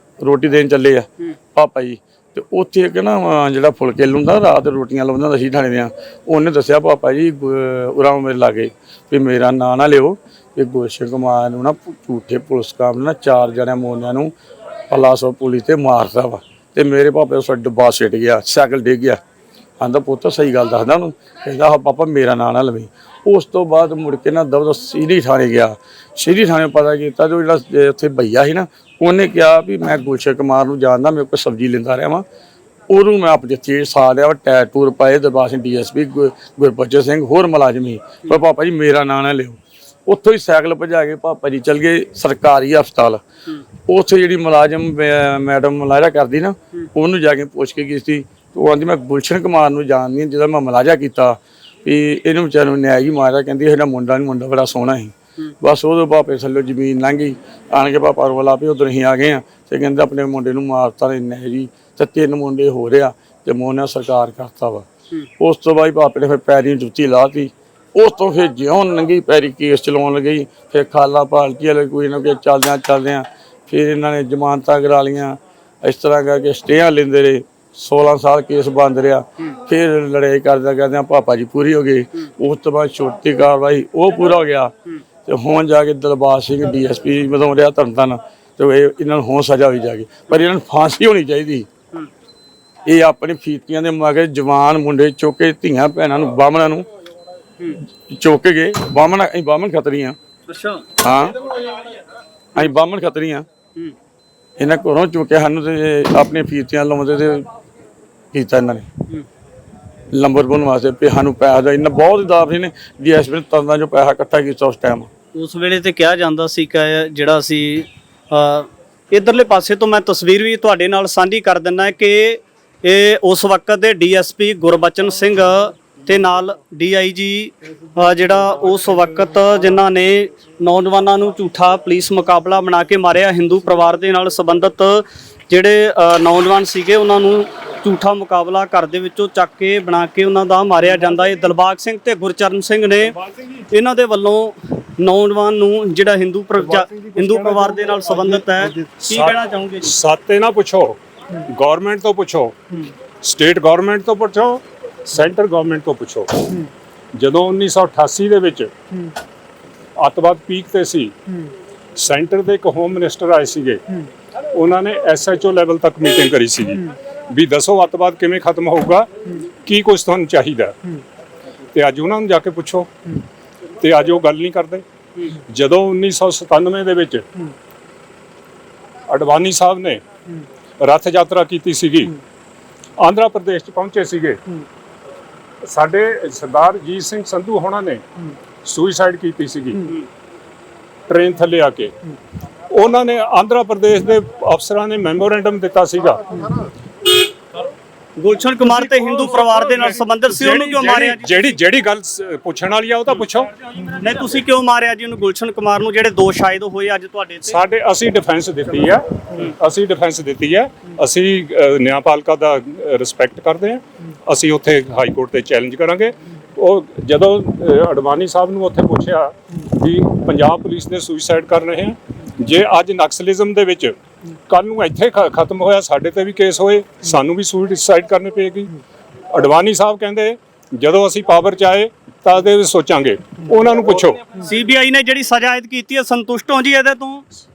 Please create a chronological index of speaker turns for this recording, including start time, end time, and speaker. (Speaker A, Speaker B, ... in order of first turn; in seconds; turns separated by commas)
Speaker A: 0.2-14.3, Speaker A: 14.9-19.2, Speaker A: 19.8-32.2, Speaker A: 32.9-43.2, Speaker A: 43.9-64.9, Speaker A: 65.4-84.7, Speaker A: 85.3-91.7, Speaker A: 92.9-96.9, Speaker A: 98.1-100.2, Speaker B: 100.5-100.9, Speaker A: 101.0-101.4, Speaker A: 102.6-103.5, Speaker A: 104.6-107.5, Speaker A: 108.3-108.9, Speaker A: 110.1-115.1, Speaker B: 115.3-149.9, Speaker C: 146.6-152.6, Speaker C: 153.2-156.6, Speaker C: 157.1-158.7, Speaker C: 160.0-161.1, Speaker C: 162.0-163.8, Speaker C: 164.5-169.1, Speaker C: 169.7-170.8, Speaker C: 171.7-172.9, Speaker C: 173.8-174.8, Speaker C: 175.5-177.2, Speaker C: 179.1-180.0, Speaker C: 180.8-182.2, Speaker C: 183.0-184.4, Speaker C: 185.6-188.0, Speaker C: 188.6-189.9, Speaker C: 191.1-191.9, Speaker C: 192.7-196.3, Speaker B: 198.2-201.6, Speaker C: 199.0-203.5, Speaker B: 204.0-207.6, Speaker C: 207.5-223.9, Speaker C: 224.5-228.8, Speaker C: 229.3-234.3, Speaker B: 234.4-237.2